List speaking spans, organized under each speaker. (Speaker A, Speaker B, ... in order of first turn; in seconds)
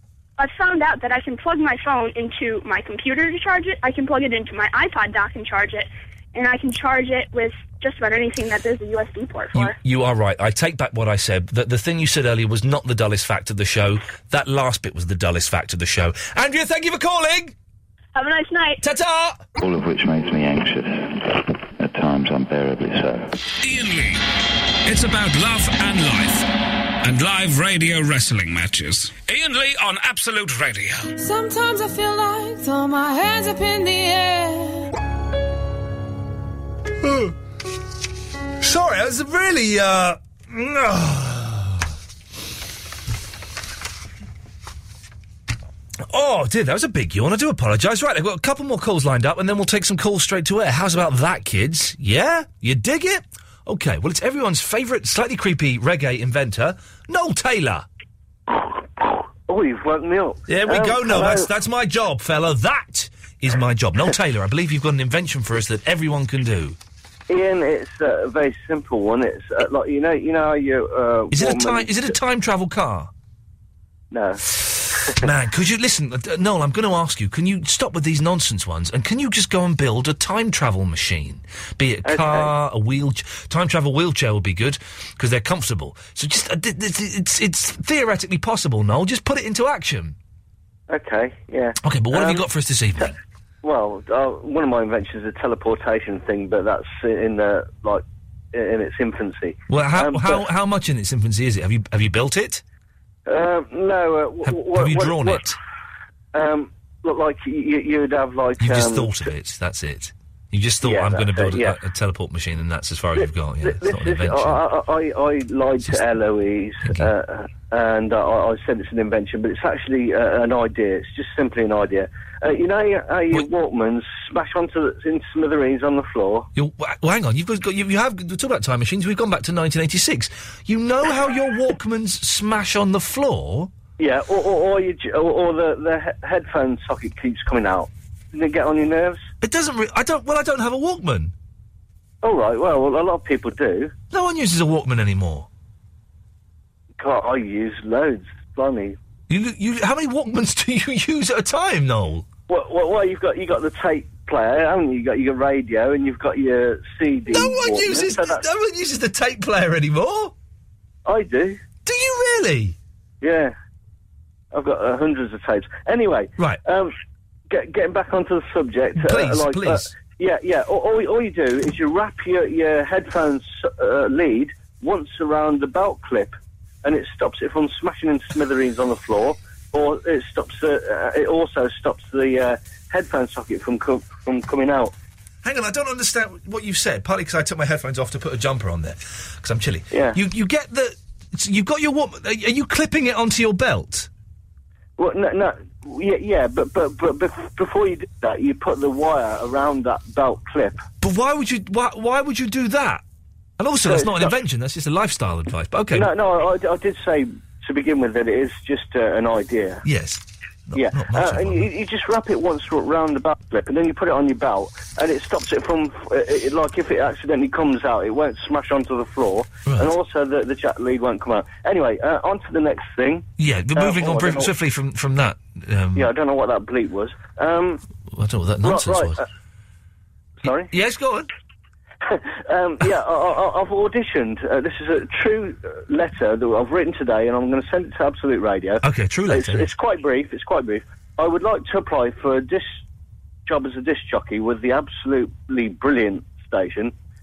Speaker A: 0.4-9.8, 18.1-18.8
Speaker B: 9.5-17.5, 18.8-19.5, 37.0-37.3, 38.6-41.9, 46.1-57.9, 60.5-66.8, 71.3-73.1, 74.6-90.2, 91.8-93.2, 99.7-102.6, 104.5-105.6, 108.6-114.6, 116.8-117.1, 126.5-133.7, 139.4-141.3, 144.1-145.5, 149.3-152.3, 157.3-160.3, 161.8-162.8, 169.0-169.9, 185.4-194.1, 201.0-203.0, 203.6-206.1, 209.8-211.7, 219.7-219.9, 223.4-226.1, 228.1-229.2, 230.4-231.3, 238.8-239.7
Speaker C: 19.6-23.3
Speaker D: 23.6-24.2, 24.9-26.5, 27.0-31.1
Speaker E: 31.2-34.9
Speaker F: 59.5-61.5, 67.3-72.1, 74.1-74.4, 82.0-82.5, 90.9-92.4, 93.6-100.5, 103.3-105.5, 106.3-109.3, 110.8-111.8, 113.2-126.5, 134.0-139.2, 142.2-143.9, 147.0-149.0, 152.5-158.4, 161.1-161.6, 163.2-163.5, 164.5-166.9, 167.5-184.9, 189.9-190.2, 195.0-200.8, 203.8-204.3, 205.9-209.8, 210.8-224.5, 226.0-227.8, 228.6-229.2, 230.4-230.7, 232.1-242.8, 243.5-246.9